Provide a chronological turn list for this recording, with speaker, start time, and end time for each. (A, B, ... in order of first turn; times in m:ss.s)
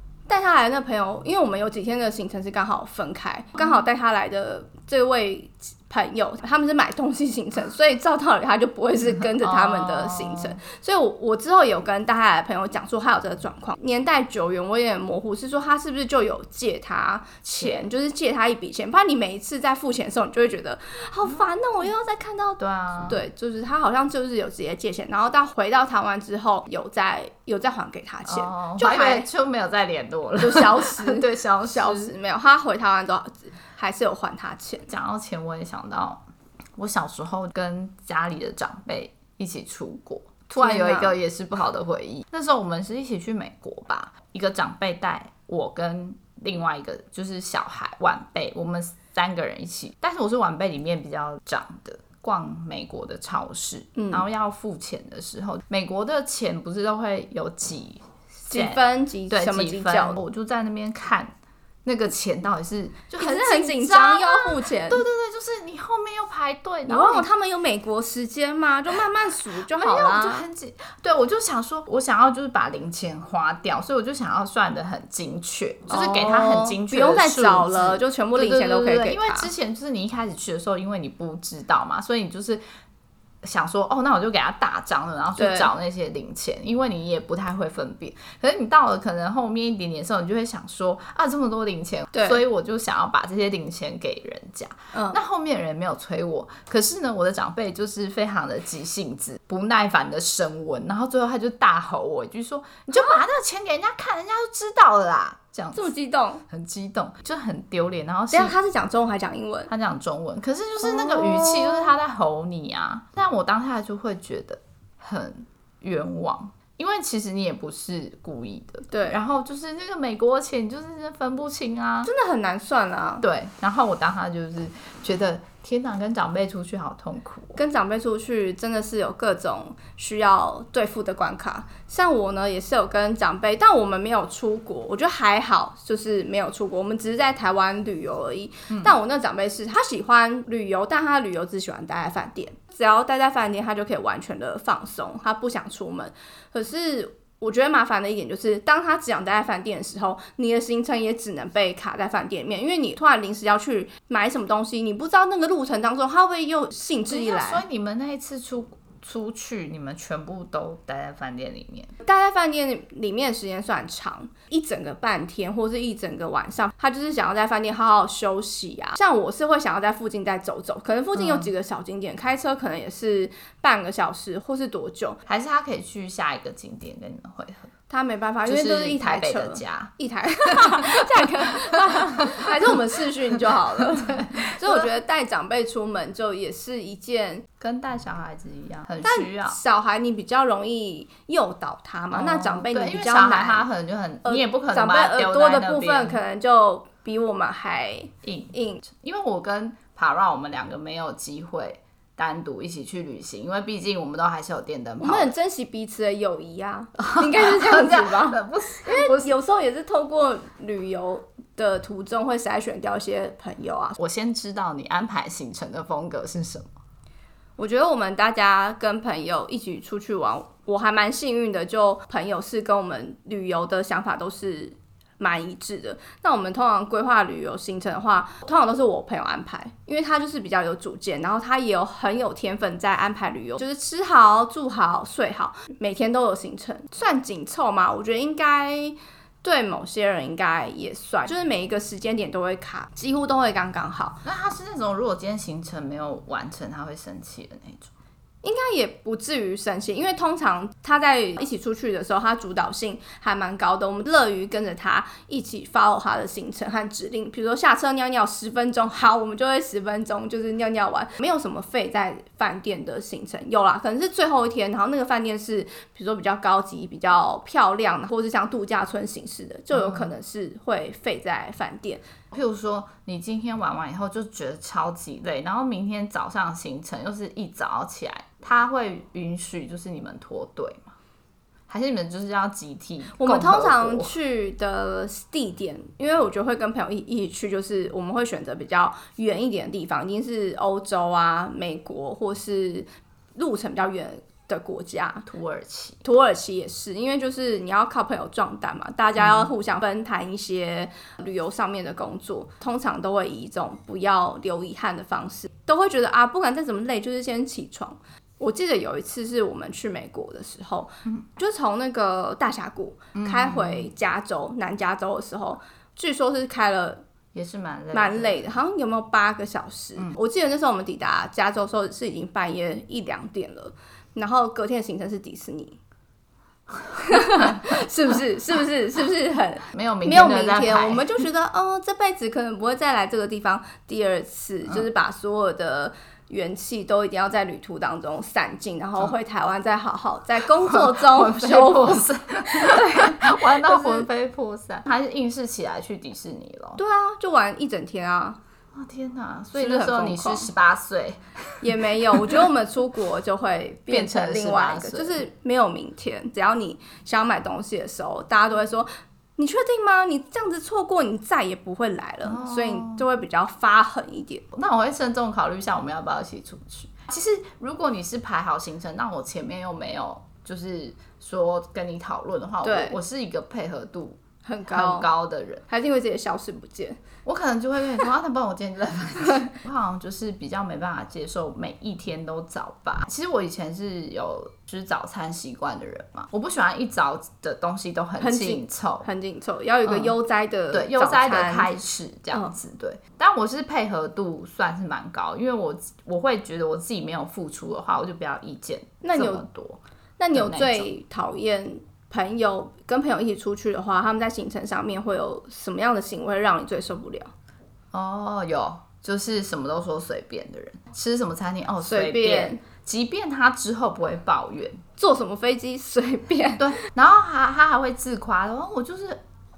0:00.3-0:29.3 A
0:09.1-0:10.6 B
0:17.6-0:17.9 B
0:22.6-0:23.2 B
0:28.2-0:32.1 B
0:30.4-0:34.9 A
0:34.9-0:36.2 B
0:36.8-1:01.3 B
0:40.6-0:41.2 A
0:54.0-0:54.2 A
0:58.5-1:00.2 A
1:01.8-1:07.3 B
1:03.2-1:05.0 A
1:06.9-1:10.5 A
1:09.7-1:22.6 B
1:15.9-1:19.5 A
1:23.4-1:45.9 B
1:25.4-1:25.7 A
1:32.1-1:32.4 A
1:34.9-1:35.2 A
1:45.7-1:46.4 A
1:46.5-1:48.5 B
1:48.3-1:49.7 A
1:49.7-2:02.1 B
1:50.8-1:51.9 A
1:58.9-1:59.2 A
2:02.0-2:03.2 A
2:03.2-2:07.6 B
2:07.6-2:37.6 A
2:18.7-2:19.0 B
2:37.1-2:41.9 B
2:42.0-2:55.2 A
2:51.1-2:51.5 B
2:55.2-2:57.7 B
2:57.9-3:07.4 A
2:58.4-2:59.9 B
3:00.4-3:01.2 B
3:02.0-3:02.4 B
3:03.8-3:04.9 B
3:07.6-3:09.6 B
3:09.0-3:13.7 A
3:12.1-3:16.2 B
3:14.2-3:18.9 A
3:18.2-3:25.3 B
3:25.0-3:34.0 A
3:27.0-3:29.3 B
3:34.0-3:36.7 B
3:37.6-4:04.2 A
4:04.2-4:07.9 B
4:08.4-4:32.0 A
4:29.7-4:30.1 B
4:32.3-4:40.9 B
4:41.7-4:44.1 B
4:43.2-4:55.3 A
4:55.2-4:56.0 B
4:56.0-5:17.0 A
4:59.2-4:59.5 B
5:13.1-5:13.9 B
5:17.3-5:18.4 B
5:17.9-5:25.8 A
5:26.9-5:44.1 A
5:29.7-5:31.2 B
5:40.6-5:46.8 B
5:46.8-5:48.4 A
5:48.7-5:52.4 B
5:49.5-5:50.5 A
5:51.6-6:04.5 A
5:53.9-5:55.2 B
6:02.2-6:03.0 B
6:04.5-6:15.6 B
6:12.6-6:13.0 A
6:14.4-6:15.1 A
6:15.7-6:17.0 A
6:17.2-6:29.1 B
6:28.2-6:31.7 A
6:29.8-6:30.2 B
6:30.7-6:39.8 B
6:39.0-6:39.4 A
6:40.2-6:47.3 A
6:40.3-6:40.9 B
6:47.9-6:54.8 B
6:51.8-6:52.6 A
6:55.0-6:56.6 A
6:56.6-6:59.2 B